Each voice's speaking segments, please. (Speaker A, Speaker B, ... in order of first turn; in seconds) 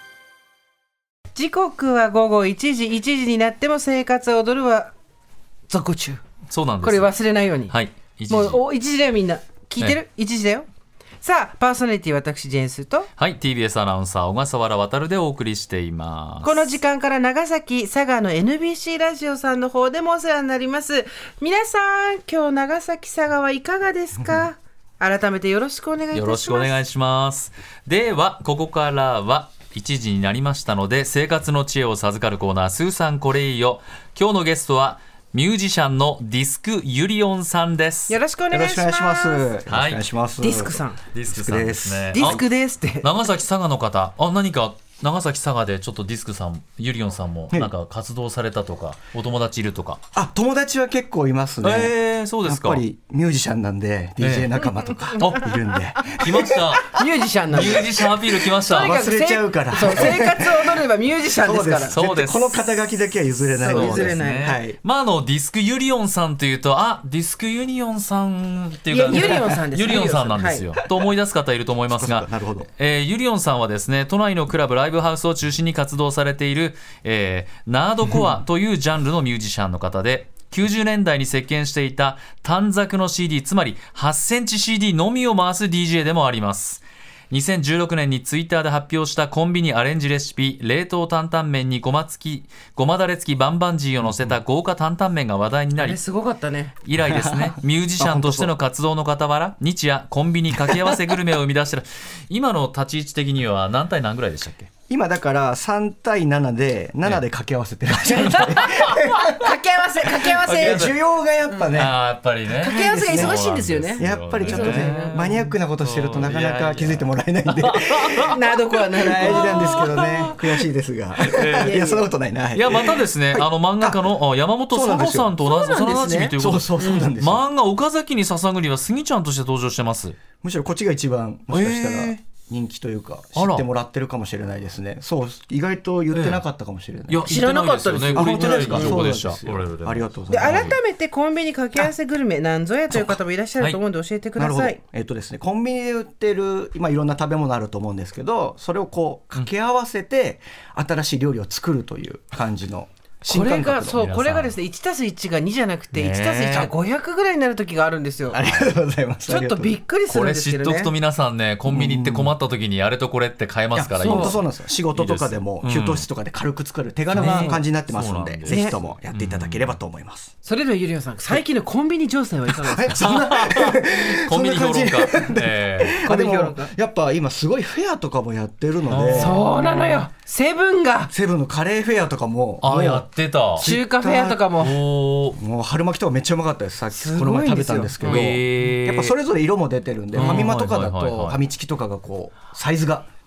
Speaker A: 1.3-4.9, 5.7-6.2, 6.8-7.8, 8.3-10.7, 11.2-13.1, 16.4-26.8, 38.1-39.5, 40.4-41.0, 42.1-43.1, 56.9-57.9, 58.6-62.0, 63.6-64.5, 68.9-70.7, 95.8-96.8, 108.2-110.9, 112.5-115.5, 118.3-120.5, 121.5-122.1, 125.4-127.1, 137.2-139.1, 140.3-144.8, 153.3-158.4, 159.3-160.9, 164.0-164.4, 167.1-167.6, 168.5-168.8, 170.4-173.0, 176.0-176.7, 179.1-181.1, 183.6-184.8, 186.9-188.3, 190.2-190.5
Speaker B: 6.5-7.1, 7.7-8.6, 13.2-16.7, 26.1-38.1, 39.7-40.0, 41.1-42.4, 43.0-50.0, 51.6-52.8, 54.2-59.0, 59.8-60.2, 61.9-62.7, 63.3-96.0, 96.8-104.7, 108.1-109.1, 110.3-110.9, 111.7-118.4, 119.1-119.7, 121.2-121.8, 122.5-130.2, 131.5-132.2, 133.3-133.7, 136.1-136.4, 137.1-140.8, 154.0-154.6, 155.9-156.7, 158.4-158.8, 160.1-166.1, 167.2-169.8, 173.0-176.0, 178.9-179.5, 182.6-183.7, 184.6-185.4, 188.0-189.2, 190.1-191.4
Speaker C: 24.2-24.4, 38.5-42.4, 50.1-58.1, 58.7-60.8, 61.4-64.8, 69.1-69.5, 71.9-72.7, 97.0-98.5, 100.6-101.0, 104.9-112.0, 112.5-118.4, 119.0-124.1, 124.7-125.3, 126.4-127.5, 130.4-137.3, 138.1-140.8, 142.9-143.2, 144.4-154.1, 158.3-159.8, 161.7-162.3, 163.7-170.3, 172.5-179.4, 181.1-184.5, 185.3-193.1